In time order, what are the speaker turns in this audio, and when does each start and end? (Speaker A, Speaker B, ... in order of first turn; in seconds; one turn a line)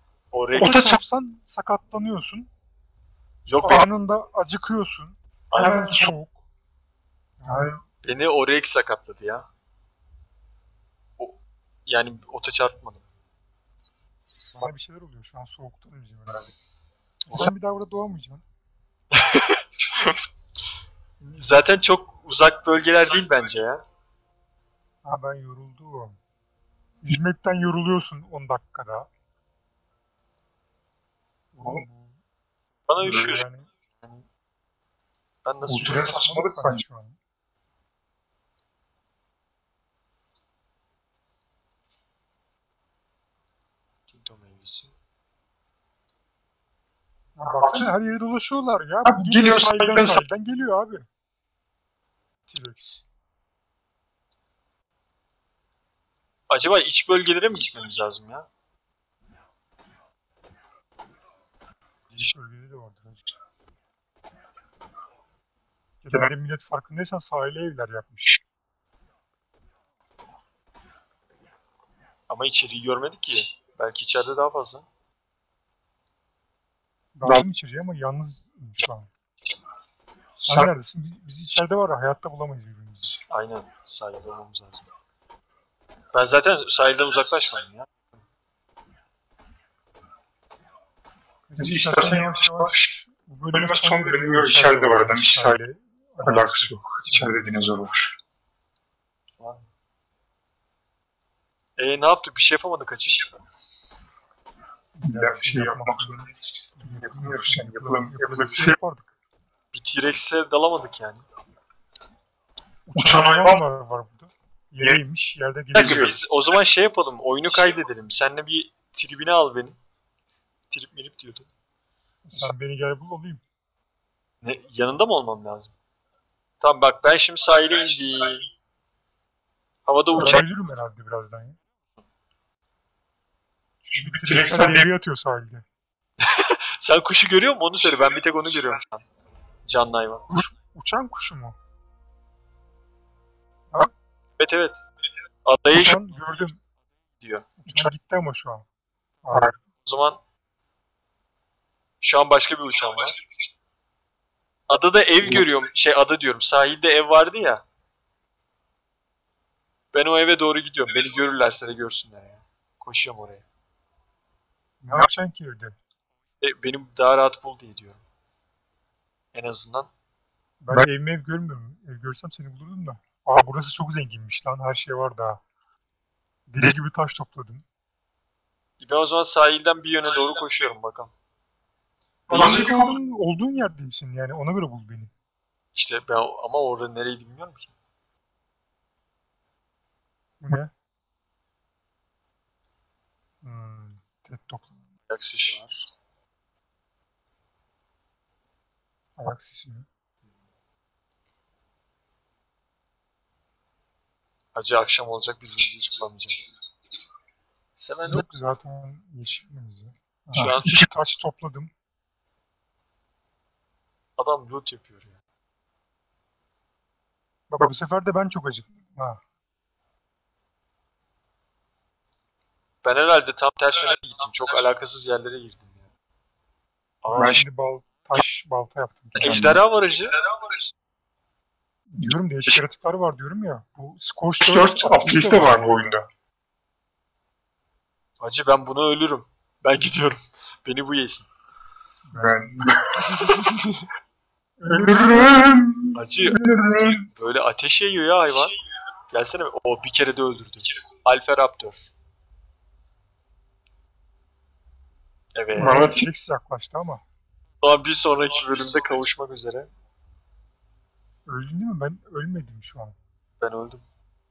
Speaker A: 0.3-0.8
Speaker B: 0.6-1.0
Speaker C: 0.6-2.5
Speaker A: 3.5-3.9
Speaker C: 3.6-6.4
Speaker A: 5.5-6.0
Speaker B: 5.6-6.1
Speaker C: 7.4-7.8
Speaker B: 7.5-7.8
Speaker A: 8.0-9.5
Speaker A: 11.2-13.0
Speaker C: 14.5-16.5
Speaker C: 17.3-18.4
Speaker A: 19.1-20.2
Speaker A: 21.3-23.8
Speaker C: 25.1-26.2
Speaker C: 27.0-29.1
Speaker C: 31.5-32.2
Speaker A: 32.9-34.3
Speaker C: 33.0-33.7
Speaker A: 35.4-36.2
Speaker B: 35.6-36.8
Speaker C: 35.8-37.2
Speaker A: 44.1-44.9
Speaker C: 47.4-51.1
Speaker B: 47.5-47.9
Speaker B: 49.0-50.2
Speaker C: 52.5-53.0
Speaker A: 56.5-58.5
Speaker C: 62.1-63.3
Speaker C: 66.0-68.4
Speaker A: 72.3-74.9
Speaker C: 77.2-79.1
Speaker B: 80.4-80.7
Speaker C: 80.5-83.2
Speaker A: 83.3-84.9
Speaker A: 86.1-88.1
Speaker C: 91.5-97.5
Speaker B: 91.6-92.9
Speaker B: 93.5-95.6
Speaker B: 96.2-98.2
Speaker A: 99.4-99.7
Speaker A: 101.8-103.2
Speaker C: 105.0-106.3
Speaker B: 105.0-108.8
Speaker C: 106.8-109.1
Speaker A: 109.7-111.2
Speaker C: 112.9-116.1
Speaker B: 113.0-113.6
Speaker B: 115.8-116.2
Speaker A: 115.8-119.8
Speaker A: 120.7-121.5
Speaker C: 122.3-123.4
Speaker A: 124.4-125.8
Speaker A: 126.6-128.5
Speaker A: 129.9-130.4
Speaker C: 130.2-131.6
Speaker B: 130.2-130.4
Speaker C: 133.9-135.7
Speaker B: 133.9-134.9
Speaker A: 136.2-139.0
Speaker A: 139.7-140.4
Speaker C: 140.3-141.6
Speaker A: 144.4-144.8
Speaker A: 145.4-146.0
Speaker C: 145.7-146.6
Speaker A: 147.2-147.5
Speaker C: 147.6-148.7
Speaker C: 149.2-149.5
Speaker A: 149.8-150.2
Speaker A: 152.0-153.2
Speaker A: 154.7-157.6
Speaker A: 159.9-163.4
Speaker C: 164.8-165.8
Speaker A: 166.4-168.0
Speaker A: 169.3-169.9
Speaker C: 170.6-175.4
Speaker C: 176.5-177.6
Speaker A: 178.8-181.1
Speaker C: 182.3-185.1
Speaker B: 182.3-183.0
Speaker A: 185.7-187.7
Speaker C: 190.4-190.7
Speaker C: 193.4-194.8
Speaker A: 195.1-195.8
Speaker C: 199.2-199.9
Speaker A: 204.6-206.6
Speaker A: 207.8-208.2
Speaker C: 208.1-211.7
Speaker A: 210.3-210.8
Speaker B: 210.3-210.9
Speaker A: 214.2-215.2
Speaker C: 217.5-219.2
Speaker A: 222.8-225.9
Speaker A: 227.0-227.3
Speaker C: 227.1-229.4
Speaker B: 227.2-227.4
Speaker B: 229.2-229.6
Speaker A: 229.2-230.2
Speaker C: 231.9-235.8
Speaker B: 232.0-232.6
Speaker B: 234.4-236.1
Speaker A: 238.2-241.3
Speaker C: 242.1-242.7
Speaker B: 242.2-243.5
Speaker A: 243.3-243.9
Speaker C: 244.6-245.6
Speaker B: 244.7-247.1
Speaker A: 245.9-246.4
Speaker A: 247.1-248.5
Speaker A: 249.1-251.9
Speaker A: 255.3-255.8
Speaker C: 255.5-257.0
Speaker B: 255.6-256.1
Speaker A: 257.6-259.7
Speaker C: 261.3-263.0
Speaker A: 263.4-263.8